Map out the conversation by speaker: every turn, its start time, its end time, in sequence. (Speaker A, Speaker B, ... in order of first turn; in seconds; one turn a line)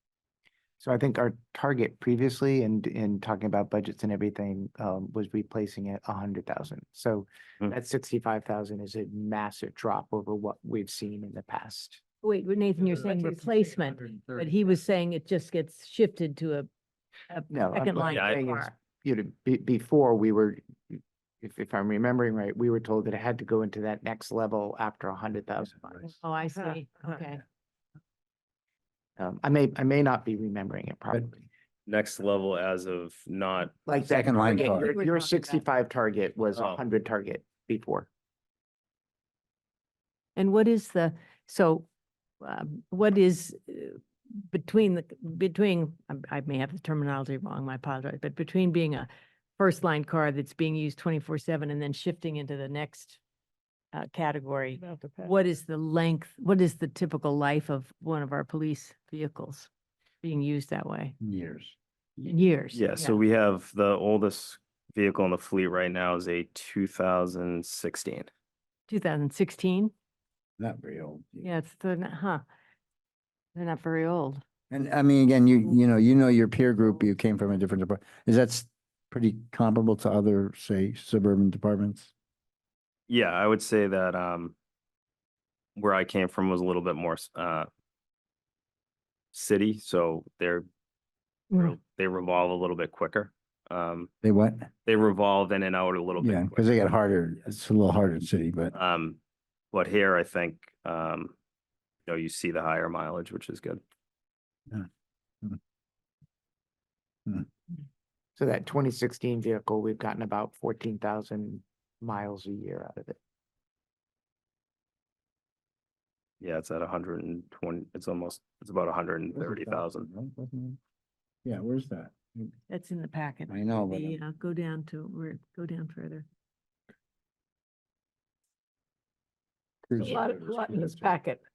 Speaker A: 0.8-12.0
Speaker B: 12.2-16.7
Speaker C: 12.8-14.8
Speaker B: 17.3-18.7
Speaker A: 17.5-26.1
Speaker D: 18.1-18.4
Speaker B: 26.1-27.4
Speaker A: 29.2-31.5
Speaker D: 31.9-33.7
Speaker A: 33.9-38.1
Speaker E: 34.0-34.9
Speaker B: 34.5-35.6
Speaker D: 36.5-36.8
Speaker B: 40.4-41.9
Speaker B: 42.4-53.2
Speaker B: 53.9-59.7
Speaker B: 60.2-61.2
Speaker E: 61.2-61.8
Speaker B: 62.2-63.2
Speaker D: 62.7-68.3
Speaker B: 68.9-69.9
Speaker E: 70.6-71.5
Speaker B: 71.4-72.4
Speaker B: 73.5-74.4
Speaker E: 74.7-82.1
Speaker D: 83.1-84.5
Speaker D: 85.8-87.7
Speaker D: 89.3-90.7
Speaker D: 91.5-94.1
Speaker E: 94.2-94.7
Speaker D: 94.8-96.7
Speaker E: 96.2-98.7
Speaker D: 98.7-99.2
Speaker D: 99.7-101.3
Speaker D: 102.1-103.8
Speaker A: 108.4-113.2
Speaker D: 116.4-120.1
Speaker E: 119.4-120.8
Speaker E: 121.5-122.5
Speaker B: 122.7-126.3
Speaker E: 123.5-124.2
Speaker E: 129.9-131.1
Speaker C: 130.0-131.2